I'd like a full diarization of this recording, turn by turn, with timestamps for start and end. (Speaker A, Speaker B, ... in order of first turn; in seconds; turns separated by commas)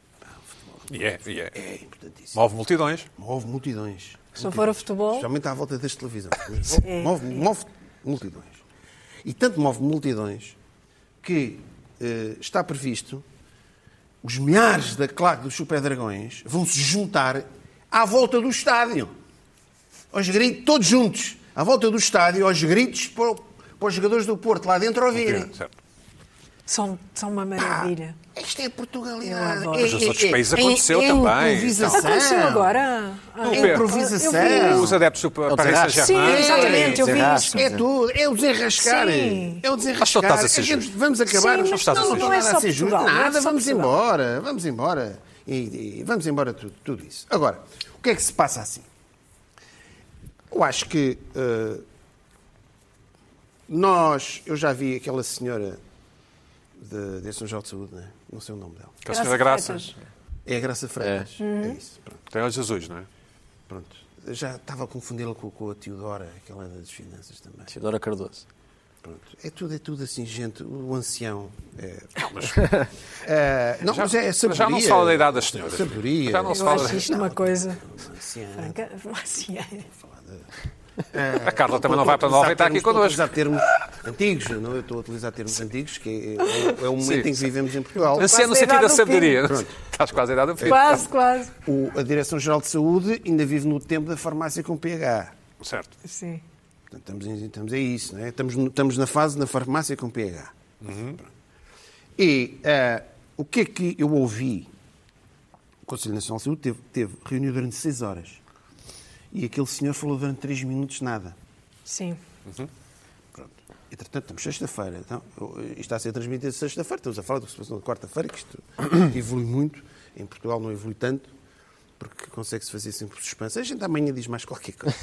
Speaker A: 0.2-2.4, Speaker B: 0.9-1.6, Speaker B: 2.3-3.1, Speaker A: 3.2-8.6, Speaker C: 4.4-5.3, Speaker C: 6.8-7.4, Speaker A: 9.2-10.6, Speaker A: 11.2-13.2, Speaker A: 14.2-19.1, Speaker A: 20.1-25.5, Speaker B: 25.1-25.7, Speaker C: 26.7-28.2, Speaker A: 27.6-32.7, Speaker C: 29.2-29.9, Speaker B: 29.8-32.1, Speaker C: 31.9-35.0, Speaker B: 33.4-37.0, Speaker A: 33.5-35.0, Speaker D: 35.5-37.9, Speaker C: 36.0-37.8, Speaker A: 36.2-48.9, Speaker C: 38.8-39.6, Speaker B: 40.0-40.9, Speaker C: 41.3-43.9, Speaker B: 41.6-42.4, Speaker A: 50.5-51.8, Speaker A: 53.7-55.8, Speaker A: 56.8-59.0, Speaker B: 59.0-59.9, Speaker C: 59.1-59.9, Speaker A: 60.5-62.2, Speaker D: 61.0-61.3, Speaker C: 61.4-61.8, Speaker B: 62.3-63.1, Speaker A: 63.7-67.7, Speaker D: 67.7-68.4, Speaker A: 69.0-72.3, Speaker B: 72.2-72.6, Speaker A: 73.2-78.8, Speaker B: 73.9-77.1, Speaker C: 76.5-77.8, Speaker C: 78.6-79.9, Speaker A: 80.0-80.4, Speaker A: 81.1-88.3, Speaker B: 81.4-83.3, Speaker B: 87.0-87.4, Speaker C: 88.1-89.5, Speaker B: 88.2-91.1, Speaker A: 89.4-89.7, Speaker A: 90.6-91.0, Speaker C: 90.6-91.5, Speaker A: 91.7-95.3, Speaker B: 95.6-95.9, Speaker C: 96.0-96.4, Speaker A: 96.9-100.5, Speaker B: 100.8-101.2, Speaker A: 102.2-104.7, Speaker A: 105.9-108.4, Speaker A: 109.3-111.4, Speaker C: 111.9-112.2, Speaker A: 113.4-121.3, Speaker A: 122.0-125.0